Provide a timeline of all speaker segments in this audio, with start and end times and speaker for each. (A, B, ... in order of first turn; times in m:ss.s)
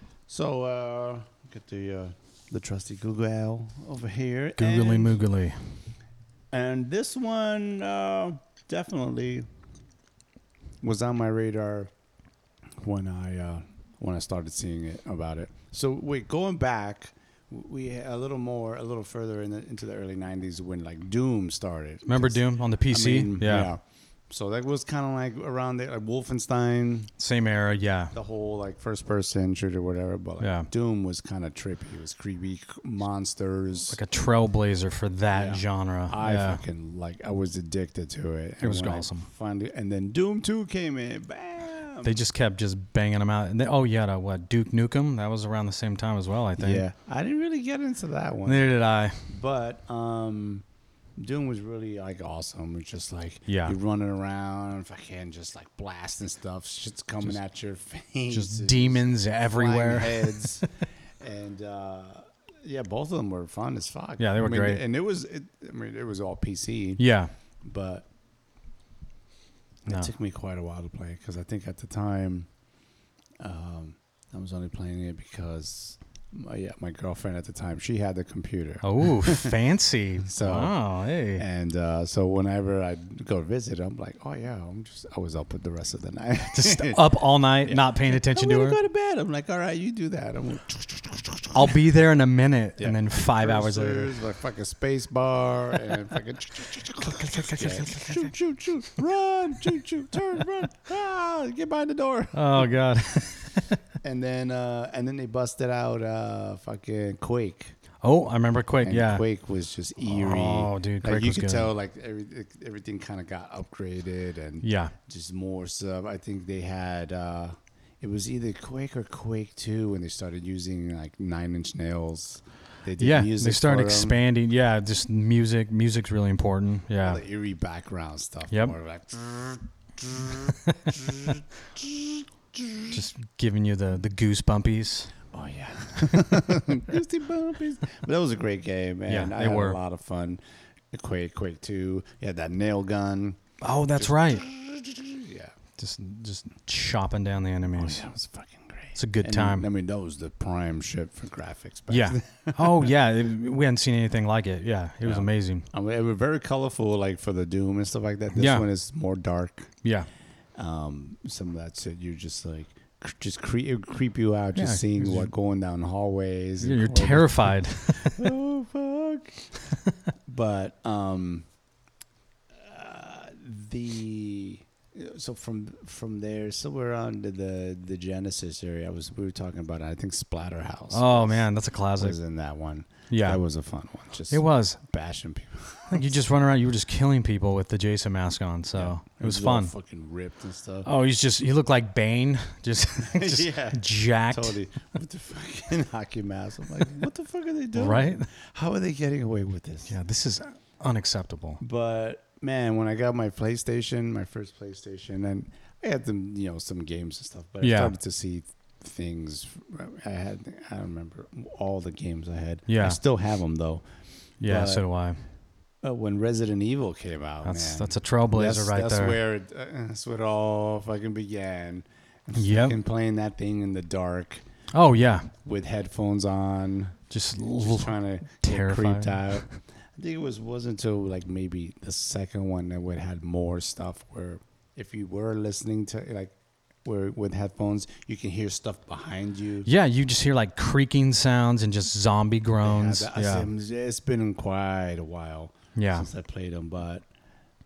0:00.3-0:05.2 A
0:04.6-0:05.6 B
0:06.5-0:09.5 A
0:10.8-0:11.9 A
0:12.8-0:27.1 A
0:22.0-0:23.7 B
0:27.2-0:28.1 B
0:28.1-0:34.0 A
0:30.4-0:30.7 B
0:33.9-0:36.6 B
0:35.3-0:42.2 A
0:38.6-0:39.2 B
0:42.0-0:46.8 B
0:46.6-0:48.7 A
0:48.4-0:49.2 B
0:49.2-0:50.6 A
0:51.2-1:07.0 A
0:53.5-0:53.7 B
0:58.3-1:00.5 B
1:04.2-1:04.8 B
1:07.0-1:07.3 B
1:07.6-1:08.1 A
1:09.8-1:12.5 A
1:13.4-1:19.6 A
1:18.8-1:21.4 B
1:20.2-1:20.8 A
1:21.3-1:27.0 A
1:26.5-1:28.8 B
1:27.6-1:31.8 A
1:31.5-1:34.1 B
1:32.8-1:42.7 A
1:37.0-1:38.3 B
1:42.3-1:43.8 B
1:44.0-1:47.8 A
1:48.0-1:49.2 B
1:48.8-2:04.2 A
1:50.0-1:51.7 B
1:54.6-1:54.9 B
2:03.0-2:07.2 B
2:07.0-2:13.0 A
2:10.7-2:10.9 B
2:12.9-2:15.1 B
2:15.3-2:20.4 A
2:19.1-2:19.8 B
2:20.9-2:23.4 A
2:23.6-2:24.4 B
2:23.9-2:25.5 A
2:25.8-2:28.0 B
2:27.7-2:32.9 A
2:29.0-2:29.6 B
2:31.9-2:35.7 B
2:35.0-2:39.8 A
2:38.3-2:38.6 B
2:40.6-2:49.6 A
2:44.6-2:45.3 B
2:46.6-2:48.3 B
2:50.3-2:51.4 A
2:52.6-3:06.0 A
3:00.9-3:02.2 B
3:03.1-3:03.4 B
3:04.3-3:04.8 B
3:05.9-3:09.7 B
3:08.7-3:10.9 A
3:10.8-3:14.6 B
3:13.0-3:20.0 A
3:17.7-3:18.3 B
3:19.9-3:21.6 B
3:21.6-3:33.8 A
3:27.6-3:27.9 B
3:32.7-3:33.0 B
3:34.4-3:35.2 B
3:34.4-3:34.8 A
3:35.8-3:44.5 A
3:37.4-3:39.2 B
3:42.4-3:42.8 B
3:44.7-3:45.3 B
3:45.4-3:56.3 A
3:47.1-3:49.6 B
3:56.8-3:59.7 A
3:59.6-4:03.5 B
4:02.6-4:07.1 A
4:05.7-4:06.1 B